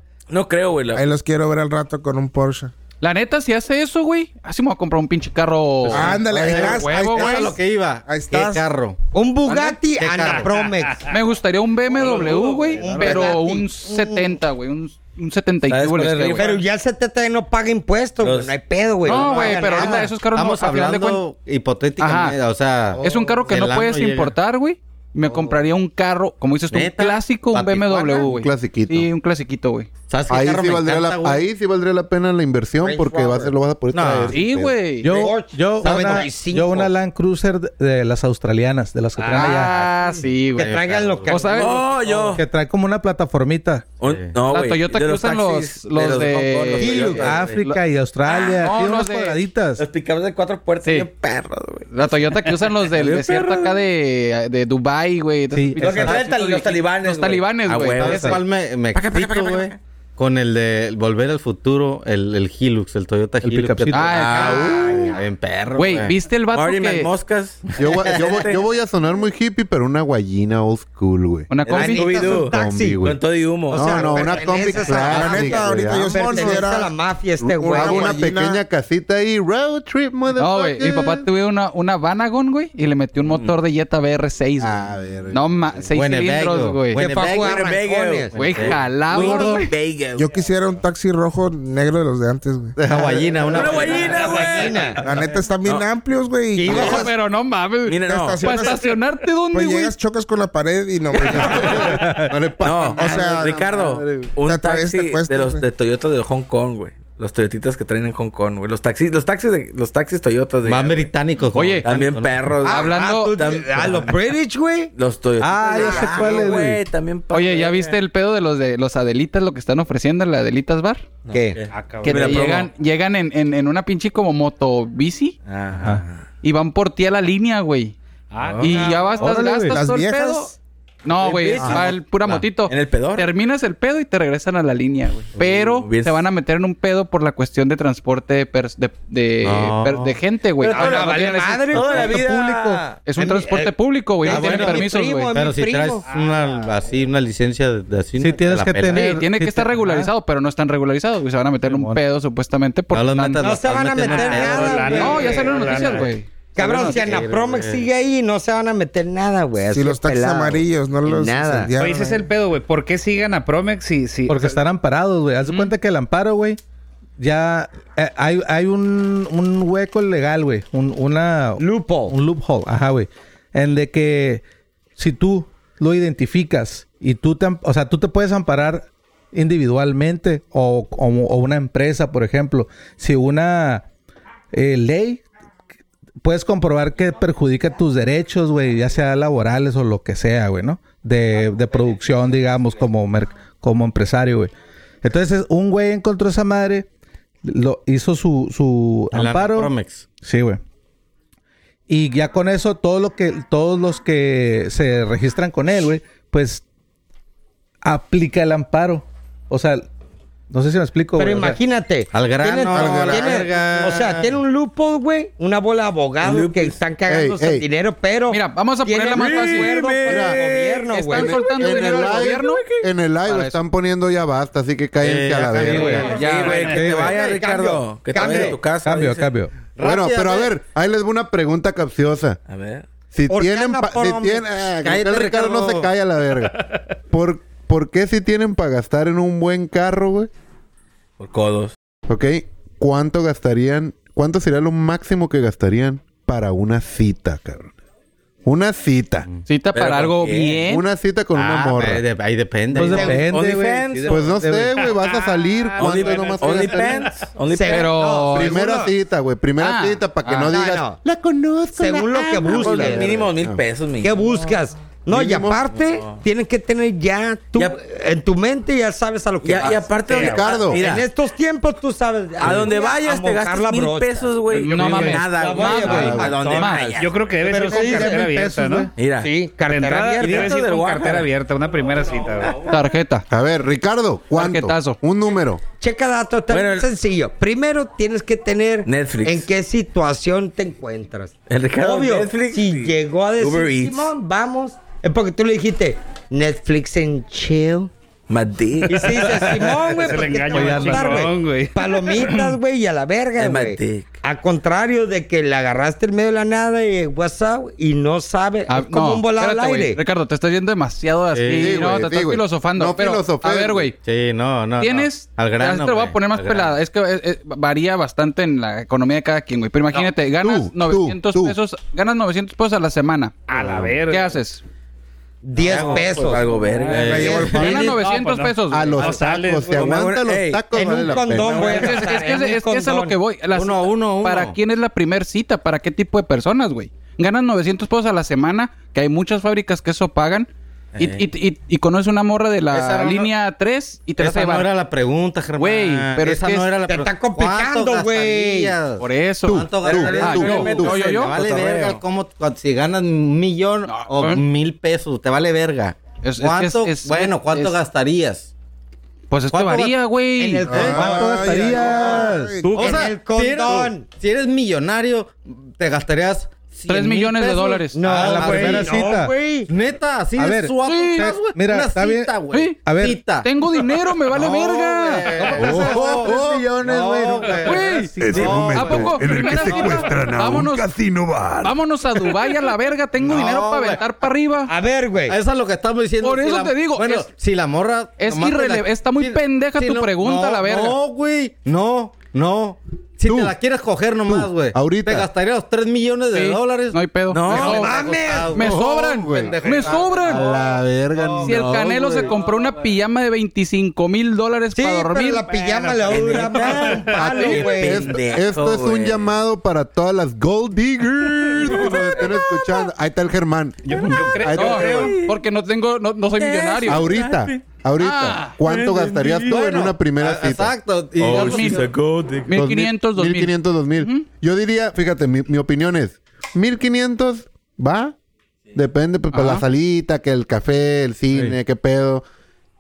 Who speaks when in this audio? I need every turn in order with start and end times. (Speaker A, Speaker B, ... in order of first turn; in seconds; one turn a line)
Speaker A: 0.3-1.1
Speaker B: 0.9-2.7
Speaker C: 3.0-7.5
Speaker D: 5.9-9.0
Speaker B: 5.9-8.6
Speaker E: 9.1-11.1
Speaker C: 9.5-9.8
Speaker D: 9.9-10.5
Speaker F: 10.6-11.2
Speaker C: 11.0-16.5
Speaker A: 11.9-13.3
Speaker E: 12.8-14.2
Speaker D: 12.9-13.3
Speaker A: 15.7-16.6
Speaker E: 16.4-20.1
Speaker A: 18.2-18.5
Speaker C: 19.0-21.2
Speaker A: 19.1-19.6
Speaker D: 19.2-24.3
Speaker C: 22.0-22.4
Speaker C: 23.0-29.9
Speaker D: 25.2-25.6
Speaker D: 26.7-28.3
Speaker G: 28.1-29.1
Speaker D: 30.1-31.4
Speaker G: 30.3-34.7
Speaker E: 32.8-33.5
Speaker D: 33.9-34.4
Speaker C: 34.3-35.2
Speaker E: 35.0-36.9
Speaker H: 35.0-39.7
Speaker D: 35.8-36.2
Speaker F: 39.2-39.8
Speaker C: 39.3-41.9
Speaker E: 40.5-41.8
Speaker D: 40.6-41.3
Speaker A: 41.4-42.4
Speaker H: 42.3-43.9
Speaker A: 44.0-47.6
Speaker D: 44.0-44.4
Speaker C: 44.5-49.4
Speaker E: 46.8-47.3
Speaker H: 47.1-49.8
Speaker A: 49.8-53.9
Speaker C: 51.9-58.3
Speaker H: 55.5-56.2
Speaker A: 55.8-59.8
Speaker D: 57.9-66.1
Speaker H: 58.0-58.4
Speaker H: 63.4-64.1
Speaker C: 63.9-65.0
Speaker A: 64.1-64.7
Speaker E: 64.3-65.2
Speaker C: 65.7-67.1
Speaker A: 66.5-68.6
Speaker G: 67.8-71.5
Speaker C: 71.5-72.3
Speaker A: 71.6-74.4
Speaker E: 71.7-73.0
Speaker G: 72.3-76.6
Speaker E: 73.7-78.3
Speaker B: 74.7-76.9
Speaker G: 77.4-81.3
Speaker B: 77.7-78.5
Speaker C: 80.3-87.1
Speaker A: 83.2-83.5
Speaker G: 84.6-85.4
Speaker D: 85.9-87.6
Speaker E: 87.0-88.3
Speaker A: 87.2-90.3
Speaker D: 88.3-88.8
Speaker C: 88.3-89.7
Speaker B: 90.1-92.8
Speaker D: 92.8-94.5
Speaker E: 93.0-95.0
Speaker A: 93.5-95.1
Speaker B: 95.0-97.1
Speaker E: 96.5-97.1
Speaker A: 96.7-97.1
Speaker C: 96.7-99.9
Speaker A: 97.8-98.7
Speaker B: 98.1-98.9
Speaker B: 99.5-101.9
Speaker G: 101.2-104.3
Speaker A: 101.4-101.9
Speaker H: 101.8-102.3
Speaker A: 102.6-111.1
Speaker B: 103.0-103.6
Speaker B: 104.4-105.6
Speaker D: 110.6-112.3
Speaker C: 111.5-111.9
Speaker A: 111.8-114.2
Speaker C: 112.6-113.4
Speaker E: 112.6-114.9
Speaker A: 114.9-118.0
Speaker H: 115.4-116.8
Speaker E: 115.7-116.6
Speaker C: 117.3-121.1
Speaker A: 121.3-122.7
Speaker E: 121.3-121.6
Speaker F: 121.7-122.4
Speaker C: 122.0-125.3
Speaker A: 125.5-126.2
Speaker C: 126.4-127.9
Speaker F: 128.3-129.3
Speaker A: 128.4-129.0
Speaker C: 128.6-130.5
Speaker H: 129.2-129.8
Speaker B: 129.3-130.5
Speaker C: 131.0-142.3
Speaker A: 131.2-133.3
Speaker A: 135.3-136.3
Speaker D: 139.4-140.1
Speaker A: 140.6-143.0
Speaker E: 140.7-143.7
Speaker C: 143.0-145.3
Speaker E: 144.2-146.0
Speaker D: 144.2-149.2
Speaker F: 146.0-146.9
Speaker H: 148.2-150.1
Speaker C: 148.9-153.6
Speaker H: 151.6-152.0
Speaker D: 152.9-155.2
Speaker E: 153.4-155.7
Speaker F: 154.0-156.1
Speaker C: 154.9-157.1
Speaker E: 156.6-161.7
Speaker D: 156.6-157.8
Speaker B: 159.7-162.2
Speaker F: 161.8-164.6
Speaker H: 164.3-166.6
Speaker C: 165.4-165.7
Speaker H: 167.2-174.4
Speaker E: 171.6-172.1
Speaker H: 175.0-183.8
Speaker H: 184.5-185.2
Speaker H: 186.2-194.5
Speaker H: 195.0-196.9
Speaker H: 197.4-200.6
Speaker D: 199.1-200.1
Speaker H: 201.9-206.6
Speaker H: 207.8-209.9
Speaker H: 210.5-211.6
Speaker E: 211.2-221.4
Speaker D: 212.1-214.3
Speaker B: 212.7-213.4
Speaker A: 216.2-216.8
Speaker G: 217.1-217.6
Speaker C: 218.3-219.8
Speaker A: 219.1-222.8
Speaker G: 220.1-220.4
Speaker C: 220.9-222.7
Speaker G: 221.2-226.1
Speaker C: 223.2-223.6
Speaker D: 225.0-226.1
Speaker A: 225.5-229.3
Speaker H: 225.6-226.1
Speaker C: 225.7-226.9
Speaker F: 226.0-226.8
Speaker E: 226.4-228.6
Speaker H: 226.7-227.2
Speaker H: 228.2-229.5
Speaker D: 229.8-230.5
Speaker G: 229.8-232.4
Speaker A: 232.5-232.8
Speaker G: 233.1-240.3
Speaker E: 233.3-235.7
Speaker D: 235.0-235.7
Speaker A: 241.2-241.7
Speaker G: 242.1-247.7
Speaker G: 248.4-249.3
Speaker C: 249.4-250.8
Speaker A: 249.7-250.7
Speaker G: 250.7-252.0
Speaker D: 251.3-253.3
Speaker H: 252.7-254.8
Speaker E: 252.8-253.2
Speaker A: 253.0-254.2
Speaker G: 254.1-257.1
Speaker F: 254.7-256.9
Speaker A: 255.8-257.9
Speaker E: 257.5-258.9
Speaker C: 257.6-258.7
Speaker G: 258.3-263.6
Speaker C: 259.6-260.5
Speaker E: 260.3-261.0
Speaker E: 261.8-263.3
Speaker A: 262.4-264.2
Speaker E: 264.0-278.3
Speaker G: 265.1-265.6
Speaker A: 265.9-266.2
Speaker A: 269.4-271.1
Speaker F: 270.1-270.4
Speaker G: 270.1-270.8
Speaker A: 272.4-277.2
Speaker C: 274.5-276.9
Speaker G: 275.8-276.4
Speaker F: 276.9-278.9
Speaker H: 277.6-278.9
Speaker A: 278.9-279.3
Speaker E: 279.2-280.5
Speaker F: 279.6-282.7
Speaker A: 280.2-281.3
Speaker A: 282.0-282.8
Speaker C: 282.7-283.2
Speaker G: 283.3-285.6
Speaker C: 284.3-285.0
Speaker E: 285.8-297.9
Speaker A: 286.5-286.9
Speaker A: 288.9-289.5
Speaker A: 291.5-294.1
Speaker A: 298.3-299.4
Speaker E: 298.9-310.0
Speaker F: 299.2-301.9
Speaker H: 300.5-301.3
Speaker A: 303.4-304.2
Speaker C: 308.7-313.9
Speaker D: 311.3-311.8
Speaker G: 311.5-313.9
Speaker D: 314.0-316.7
Speaker C: 314.8-324.6
Speaker G: 320.4-321.6
Speaker F: 323.5-324.4
Speaker E: 325.4-328.0
Speaker A: 325.6-327.8
Speaker D: 325.6-326.1
Speaker F: 326.7-327.1
Speaker D: 326.9-327.9
Speaker C: 327.1-329.2
Speaker F: 327.7-329.9
Speaker G: 328.7-331.8
Speaker A: 329.7-332.2
Speaker E: 330.7-333.1
Speaker C: 331.6-344.7
Speaker D: 333.5-334.6
Speaker D: 340.9-341.2
Speaker D: 342.7-343.3
Speaker D: 344.2-358.5
Speaker C: 345.6-346.7
Speaker E: 346.9-348.8
Speaker C: 349.0-351.4
Speaker G: 349.4-350.9
Speaker A: 349.8-352.0
Speaker C: 353.8-354.4
Speaker C: 356.2-357.8
Speaker C: 359.3-360.8
Speaker D: 359.5-360.0
Speaker E: 360.4-362.0
Speaker H: 360.7-362.6
Speaker B: 360.7-362.9
Speaker D: 360.8-362.1
Speaker D: 362.7-369.0
Speaker C: 362.7-363.0
Speaker E: 362.7-364.0
Speaker C: 366.9-368.1
Speaker E: 367.9-369.7
Speaker H: 368.0-369.3
Speaker D: 369.7-380.0
Speaker H: 370.4-373.2
Speaker C: 370.8-371.4
Speaker C: 372.5-375.5
Speaker E: 375.3-376.2
Speaker H: 375.5-378.9
Speaker C: 377.5-380.9
Speaker I: 378.2-382.4
Speaker C: 381.6-384.7
Speaker D: 383.2-384.1
Speaker E: 384.6-385.4
Speaker D: 385.3-402.4
Speaker C: 386.2-387.3
Speaker C: 388.2-391.0
Speaker G: 393.2-393.5
Speaker G: 394.3-395.3
Speaker C: 396.3-400.6
Speaker A: 397.3-397.9
Speaker E: 397.5-398.6
Speaker G: 398.5-401.7
Speaker C: 401.4-405.5
Speaker A: 401.7-402.3
Speaker E: 404.7-408.1
Speaker F: 405.5-407.6
Speaker A: 406.1-409.4
Speaker G: 407.1-415.1
Speaker A: 411.5-412.9
Speaker A: 413.9-415.4
Speaker C: 413.9-417.1
Speaker A: 416.4-417.6
Speaker G: 416.9-420.7
Speaker C: 418.0-418.6
Speaker A: 418.6-419.9
Speaker D: 419.5-421.9
Speaker A: 421.2-422.6
Speaker C: 421.2-421.9
Speaker C: 422.5-424.2
Speaker G: 422.5-428.1
Speaker G: 428.7-432.2
Speaker C: 429.3-429.6